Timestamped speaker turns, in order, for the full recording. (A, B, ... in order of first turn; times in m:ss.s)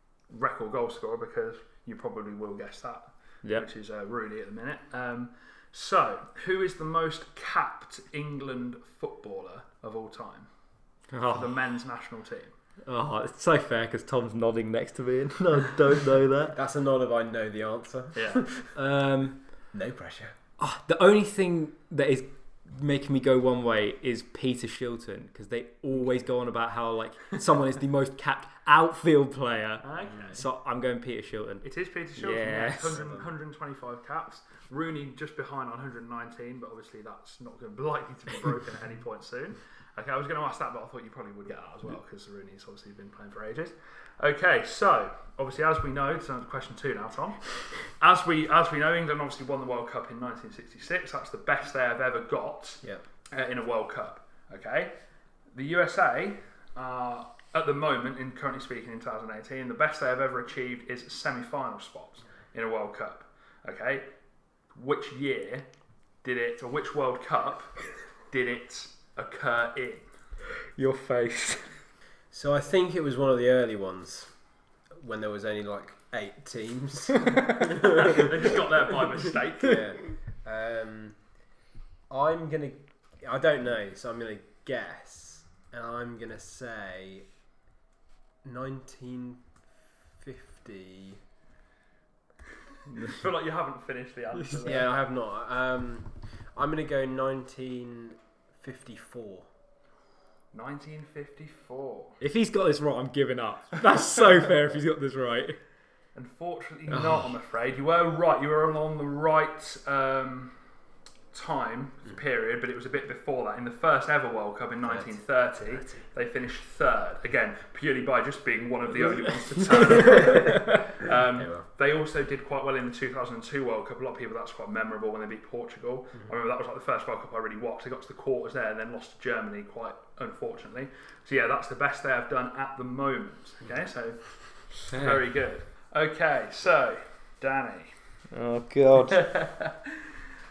0:00.3-0:10.5 A
0:11.1-0:11.5 B
0:11.3-0:12.5 A
0:12.8-0:16.6 B
0:16.5-0:18.7 C
0:18.1-0:18.5 A
0:18.7-0:19.4 B
0:19.7-0:20.3 C
0:20.6-0:31.6 B
0:29.8-0:30.4 A
0:30.0-0:30.4 C
0:31.6-0:54.9 A
0:32.2-0:33.0 B
0:32.9-0:33.2 C
0:55.5-1:04.1 A
1:04.7-1:05.6 A
1:06.2-1:07.8 A
1:08.3-1:10.1 A
1:10.8-1:11.7 B
1:12.3-1:14.3 C
1:15.0-1:18.6 C
1:17.6-1:19.9 A
1:19.6-1:21.2 C
1:22.1-1:27.2 C
1:28.4-1:29.4 C
1:30.2-1:31.2 C
1:32.9-1:34.9 A
1:34.6-1:39.5 C
1:40.5-1:42.2 A
1:42.2-1:45.6 B
1:46.1-1:50.5 A
1:46.9-1:47.2 B
1:51.3-2:17.9 A
1:54.8-1:56.0 C
1:59.8-2:00.8 B
2:00.0-2:00.6 C
2:01.3-2:01.6 C
2:14.9-2:15.2 B
2:18.3-2:19.3 B
2:19.1-2:20.0 A